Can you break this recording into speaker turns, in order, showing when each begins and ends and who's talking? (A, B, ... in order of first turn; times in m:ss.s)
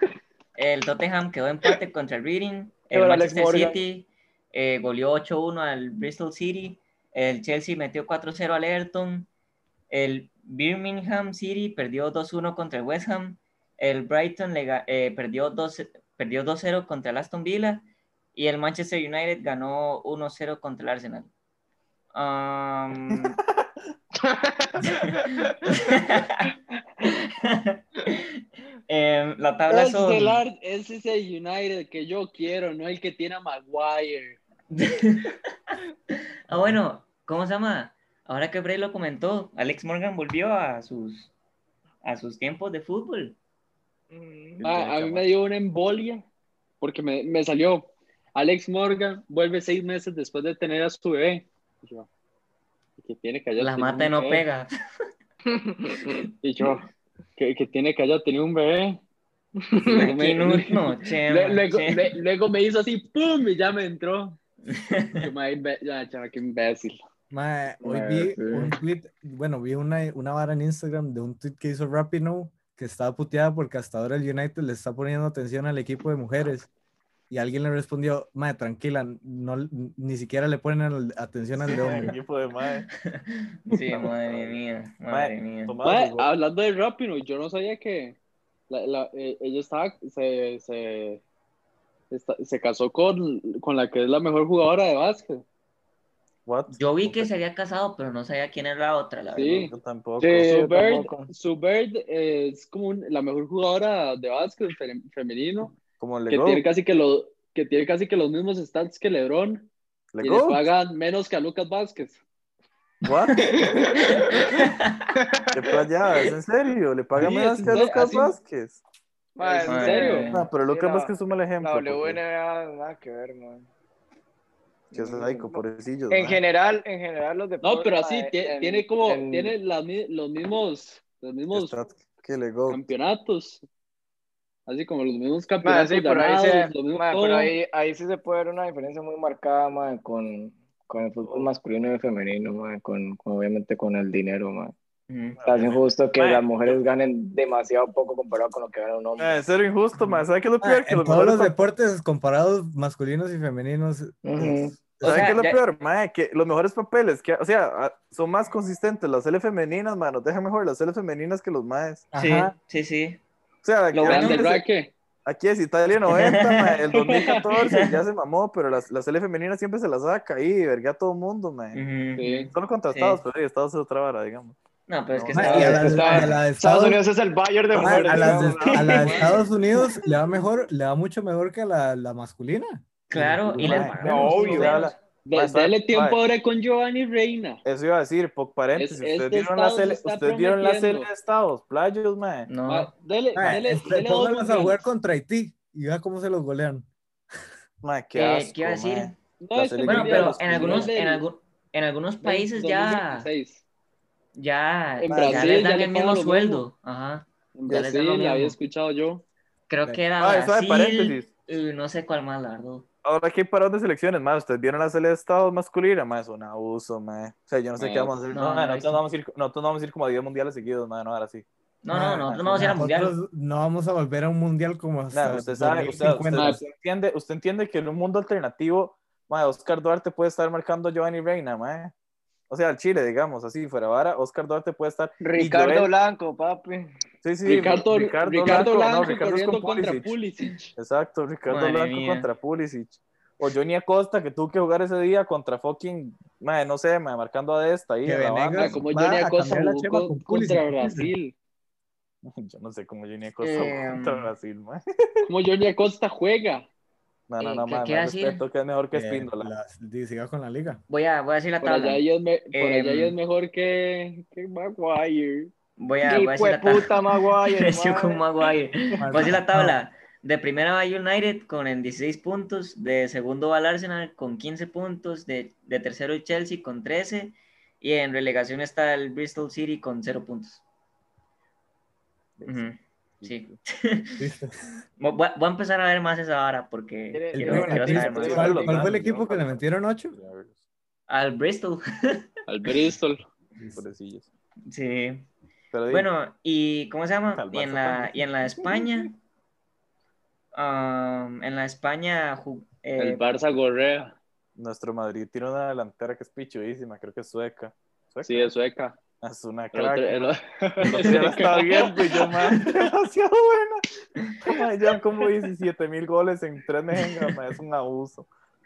0:00.6-0:09.3 A
0:02.9-0:03.8 B
0:09.9-0:21.3 A
0:22.1-0:23.4 A
0:24.2-0:26.0 B
0:24.8-0:26.5 A
0:27.0-0:30.4 A
0:29.7-0:34.4 C
0:34.7-0:35.4 A
0:36.5-0:41.3 A
0:36.5-0:36.8 D
0:42.0-0:43.4 A
0:44.1-0:44.6 B
0:44.6-0:45.3 E
0:44.6-0:46.2 C
0:46.8-0:52.1 C
0:53.0-0:54.4 C
0:53.6-0:54.7 A
0:55.5-0:56.2 B
0:56.4-0:56.8 C
0:57.4-0:59.0 C
0:59.8-1:04.4 C
0:59.9-1:02.2 A
1:04.7-1:05.3 A
1:05.2-1:07.0 C
1:07.3-1:16.7 D
1:07.8-1:08.8 B
1:17.3-1:22.2 D
1:21.6-1:22.9 E
1:23.0-1:25.8 A
1:23.7-1:24.1 C
1:24.3-1:26.3 E
1:25.8-1:28.2 C
1:28.7-1:31.2 C
1:32.1-1:35.4 C
1:36.5-1:37.3 E
1:36.7-1:39.7 A
1:39.3-1:39.7 C
1:39.4-1:40.5 E
1:40.2-1:41.3 B
1:40.4-1:45.8 C
1:46.0-1:46.6 E
1:46.3-1:49.7 C
1:50.1-1:50.7 E
1:50.2-1:52.2 C
1:53.0-1:54.2 E
1:53.7-1:54.6 B
1:54.2-1:55.1 A
1:55.2-1:55.8 B
1:55.5-1:58.8 E
1:57.2-1:58.4 C
1:57.2-1:57.8 D
1:59.4-2:03.7 B
1:59.4-2:00.3 C
1:59.6-2:00.5 A
2:00.3-2:02.2 E
2:04.9-2:06.4 E
2:04.9-2:09.6 B
2:07.6-2:11.8 C
2:11.5-2:12.8 E
2:12.7-2:13.6 C
2:14.7-2:17.5 C
2:15.6-2:24.7 B
2:25.1-2:25.4 A
2:25.4-2:26.8 E
2:25.5-2:29.4 B
2:29.2-2:31.6 E
2:30.6-2:35.3 D
2:34.2-2:34.7 B
2:35.0-2:42.1 E
2:35.0-2:35.6 A
2:42.1-2:42.5 D
2:42.2-2:43.2 A
2:43.6-2:44.6 E
2:43.9-2:44.6 A
2:44.0-2:44.9 C
2:45.2-2:51.8 E
2:46.1-2:46.8 A
2:46.9-2:47.6 C
2:51.8-2:53.2 A
2:52.2-2:52.5 C
2:52.5-2:54.6 E
2:54.9-2:56.3 A
2:55.1-2:56.1 E
2:55.3-2:57.0 D
2:55.5-2:59.4 B
2:57.8-3:04.5 D
2:57.8-2:58.4 E
2:58.1-2:59.4 A
3:03.1-3:05.0 A
3:03.1-3:06.2 E
3:04.0-3:04.8 B
3:05.2-3:07.6 C
3:07.6-3:12.5 E
3:08.8-3:11.1 C
3:12.5-3:12.9 A
3:12.7-3:14.8 C
3:13.4-3:16.9 D
3:17.8-3:20.9 E
3:18.2-3:19.2 A
3:19.4-3:21.2 C
3:19.8-3:23.3 A
3:22.2-3:23.6 C
3:24.4-3:28.6 A
3:25.0-3:26.7 C
3:25.1-3:25.7 E
3:27.6-3:29.2 C
3:29.7-3:32.9 A
3:30.2-3:31.3 E
3:33.0-3:41.5 E
3:37.8-3:38.1 C
3:38.3-3:39.0 A
3:41.8-3:43.2 A
3:41.9-3:46.6 D
3:42.3-3:42.8 E
3:45.1-3:51.9 E
3:46.3-3:46.6 C
3:52.5-3:55.9 E
3:55.2-3:56.9 B
3:57.2-4:00.1 E
3:57.4-4:00.7 C
4:00.8-4:08.9 E
4:01.5-4:02.3 A
4:08.0-4:11.1 D
4:08.5-4:11.3 C
4:12.2-4:15.2 E
4:13.4-4:14.3 A
4:15.3-4:16.7 C
4:17.3-4:19.5 E
4:17.4-4:18.4 A
4:18.9-4:20.8 D
4:20.9-4:23.2 A
4:21.6-4:25.5 C
4:25.8-4:40.6 A
4:26.1-4:28.2 B
4:29.0-4:29.8 D
4:42.4-4:43.6 E
4:42.5-4:44.2 A
4:44.2-4:44.7 D
4:45.0-4:48.7 A
4:47.1-4:49.0 B
4:47.3-4:50.2 D
4:47.5-4:50.6 E
4:51.1-4:52.7 A
4:52.5-4:53.2 C
4:53.6-4:53.8 D
4:53.7-4:54.3 E
4:54.7-4:55.3 A
4:55.7-4:56.1 E
4:55.9-4:59.2 A
4:57.3-4:58.8 E
5:00.5-5:03.3 A
5:03.0-5:04.2 C
5:04.6-5:08.5 E
5:08.2-5:09.0 C
5:09.2-5:13.8 E
5:09.7-5:12.3 C
5:10.9-5:11.2 B
5:12.5-5:12.8 A
5:14.4-5:18.3 E